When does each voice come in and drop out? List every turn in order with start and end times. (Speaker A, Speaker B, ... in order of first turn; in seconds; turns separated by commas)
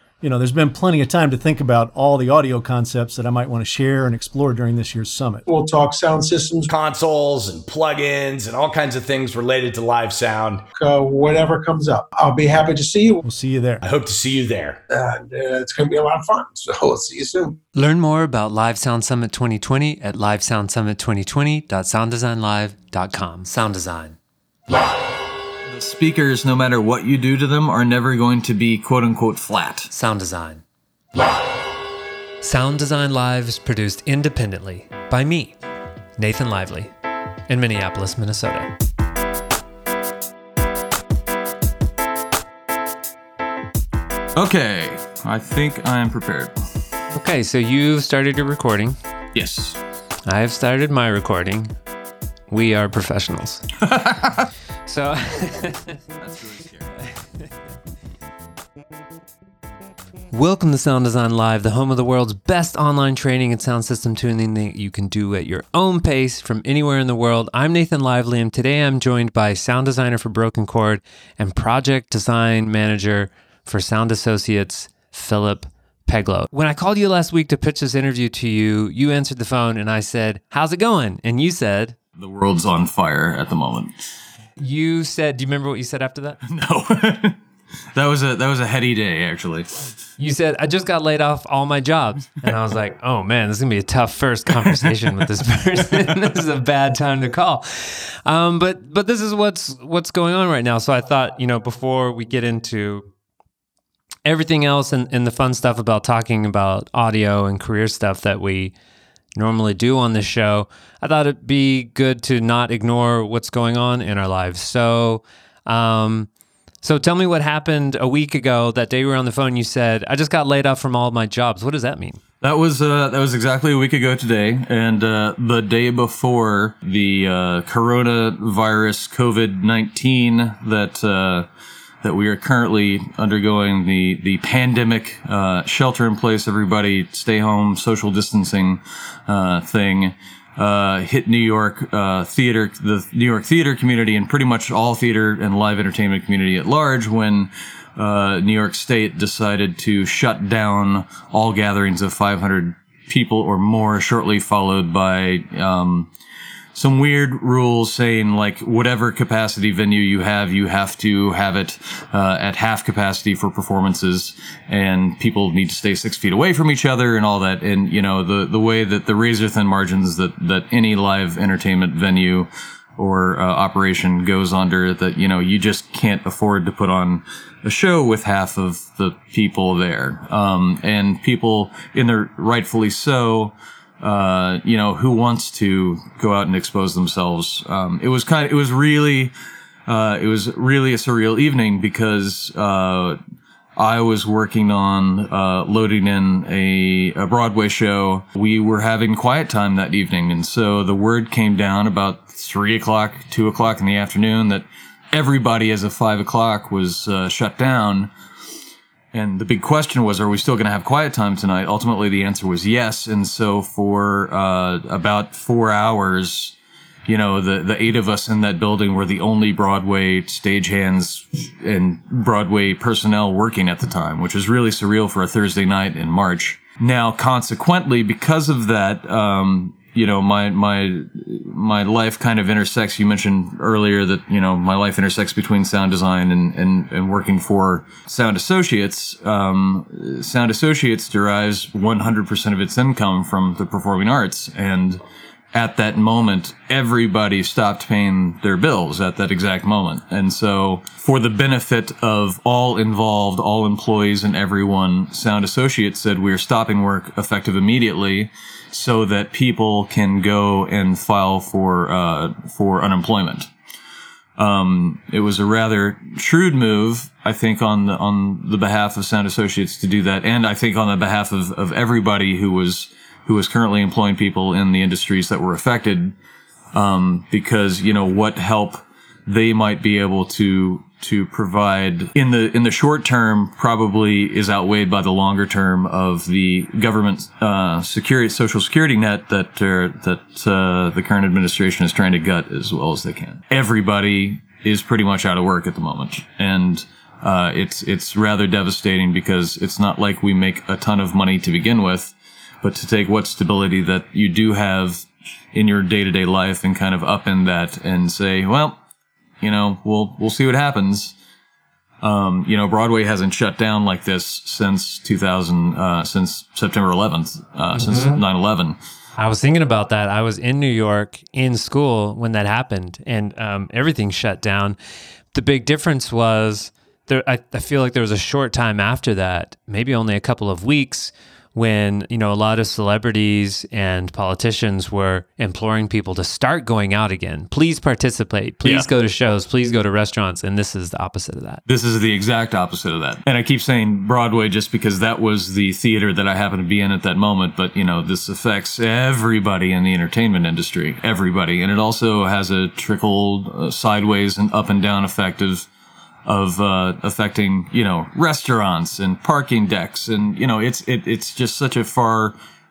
Speaker A: 0.2-5.5, Speaker B: 5.5-6.7, Speaker C: 6.7-10.6, Speaker B: 10.7-13.2, Speaker A: 13.2-13.8, Speaker C: 13.8-14.8, Speaker B: 14.9-17.6, Speaker D: 17.7-24.2, Speaker E: 25.7-29.9, Speaker D: 29.9-30.6, Speaker D: 32.4-35.5, Speaker D: 36.2-36.9, Speaker D: 37.5-38.7, Speaker E: 44.4-46.6, Speaker D: 47.1-49.0, Speaker E: 49.3-49.8, Speaker D: 50.2-51.7, Speaker D: 52.5-53.6, Speaker E: 53.9-54.3, Speaker D: 54.9-55.9, Speaker E: 56.2-56.9, Speaker D: 60.3-82.0, Speaker E: 82.2-83.9, Speaker D: 84.6-86.4, Speaker E: 86.4-87.4, Speaker E: 88.0-89.7, Speaker D: 90.2-103.1, Speaker D: 104.2-108.7, Speaker D: 109.3-116.3, Speaker D: 116.8-122.2, Speaker E: 122.4-131.5, Speaker E: 132.0-156.1, Speaker E: 156.7-189.3, Speaker E: 189.9-193.2, Speaker E: 193.8-208.1, Speaker E: 209.1-216.5, Speaker E: 217.1-245.0, Speaker E: 245.5-263.5, Speaker E: 264.4-276.1, Speaker E: 276.7-308.8, Speaker E: 309.4-311.1, Speaker E: 312.0-318.8, Speaker D: 317.7-318.2, Speaker D: 319.2-324.8, Speaker D: 325.3-341.6, Speaker E: 341.7-355.7, Speaker E: 356.3-362.4